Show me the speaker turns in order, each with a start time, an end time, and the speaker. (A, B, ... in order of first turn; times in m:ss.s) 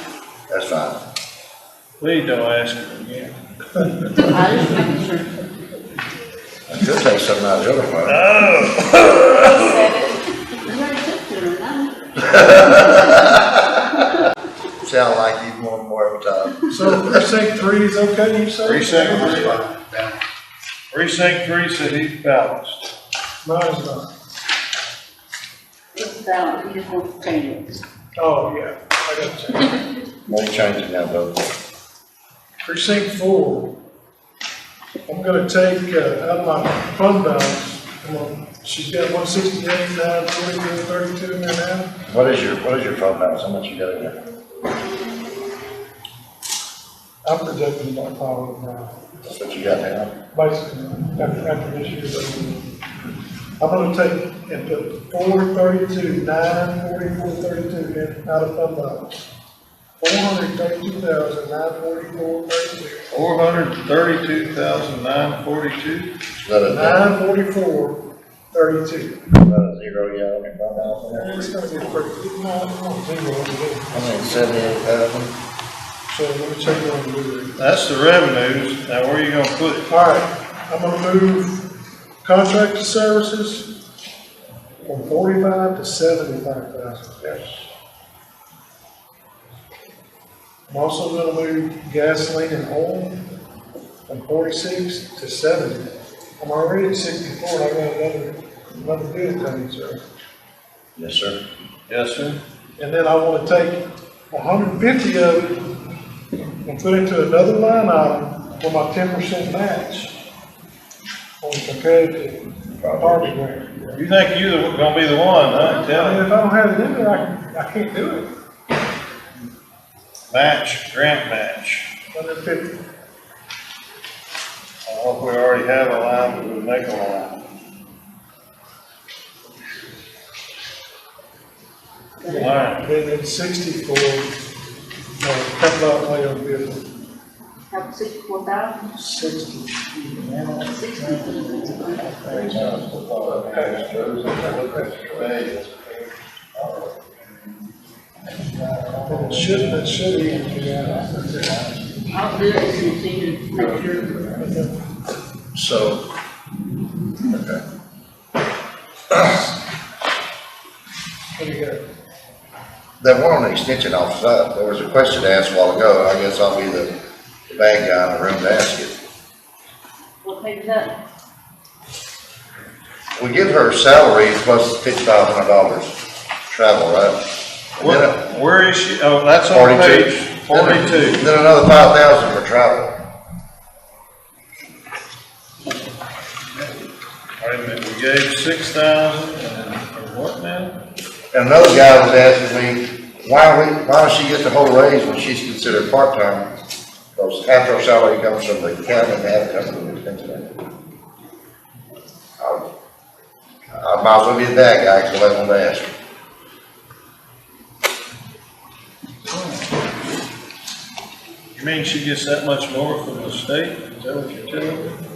0:00.5-0:01.0 A
0:02.0-0:03.3 B
0:04.1-0:05.4 C
0:06.7-0:08.2 A
0:08.1-0:09.9 B
0:09.3-0:13.3 C
0:12.3-0:13.8 A
0:14.8-0:17.3 A
0:16.7-0:19.7 D
0:18.6-0:19.6 B
0:20.9-0:22.9 B
0:23.4-0:24.1 D
0:26.0-0:27.8 C
0:28.2-0:29.8 D
0:30.3-0:31.4 A
0:32.6-0:33.7 D
0:35.1-0:42.0 D
0:42.1-0:44.2 A
0:47.2-0:49.0 D
0:49.3-0:50.1 A
0:50.3-0:52.7 D
0:53.6-0:59.1 D
1:00.0-1:03.1 D
1:03.1-1:06.1 B
1:06.4-1:07.0 A
1:06.7-1:08.0 D
1:08.5-1:09.2 D
1:09.3-1:11.5 A
1:11.1-1:14.4 D
1:13.9-1:15.4 A
1:16.1-1:17.6 D
1:17.6-1:19.9 B
1:19.9-1:21.6 D
1:22.2-1:23.7 D
1:24.8-1:27.2 D
1:27.2-1:27.5 A
1:30.7-1:33.2 D
1:34.1-1:40.0 D
1:41.0-1:41.4 A
1:41.9-1:42.4 B
1:42.8-1:45.7 D
1:46.6-1:50.1 D
1:51.4-1:53.7 D
1:52.7-1:53.9 A
1:53.9-1:56.3 B
1:55.6-1:58.3 D
2:00.3-2:01.9 B
2:02.1-2:02.8 D
2:04.9-2:07.5 B
2:12.2-2:12.6 C
2:12.3-2:12.9 B
2:12.3-2:14.3 D
2:15.2-2:16.9 D
2:17.7-2:18.9 C
2:19.0-2:20.0 D
2:20.0-2:27.6 B
2:20.6-2:22.2 C
2:22.3-2:25.3 A
2:28.4-2:32.0 B
2:29.1-2:31.6 D
2:32.1-2:34.0 C
2:33.5-2:34.4 B
2:33.6-2:34.7 D
2:35.6-2:36.0 A
2:37.2-2:37.6 A
2:39.1-2:39.4 A
2:41.4-2:41.8 D
2:43.0-2:46.9 A
2:47.5-2:49.0 A
2:50.2-2:50.9 C
2:53.2-2:56.0 A
2:56.5-2:57.2 A
2:57.8-2:58.2 A
2:57.8-3:01.2 B
2:59.5-3:03.0 A
3:07.4-3:10.8 B
3:11.3-3:16.5 A
3:17.2-3:20.5 A
3:22.4-3:22.6 A
3:23.7-3:25.9 A
3:31.6-3:34.9 B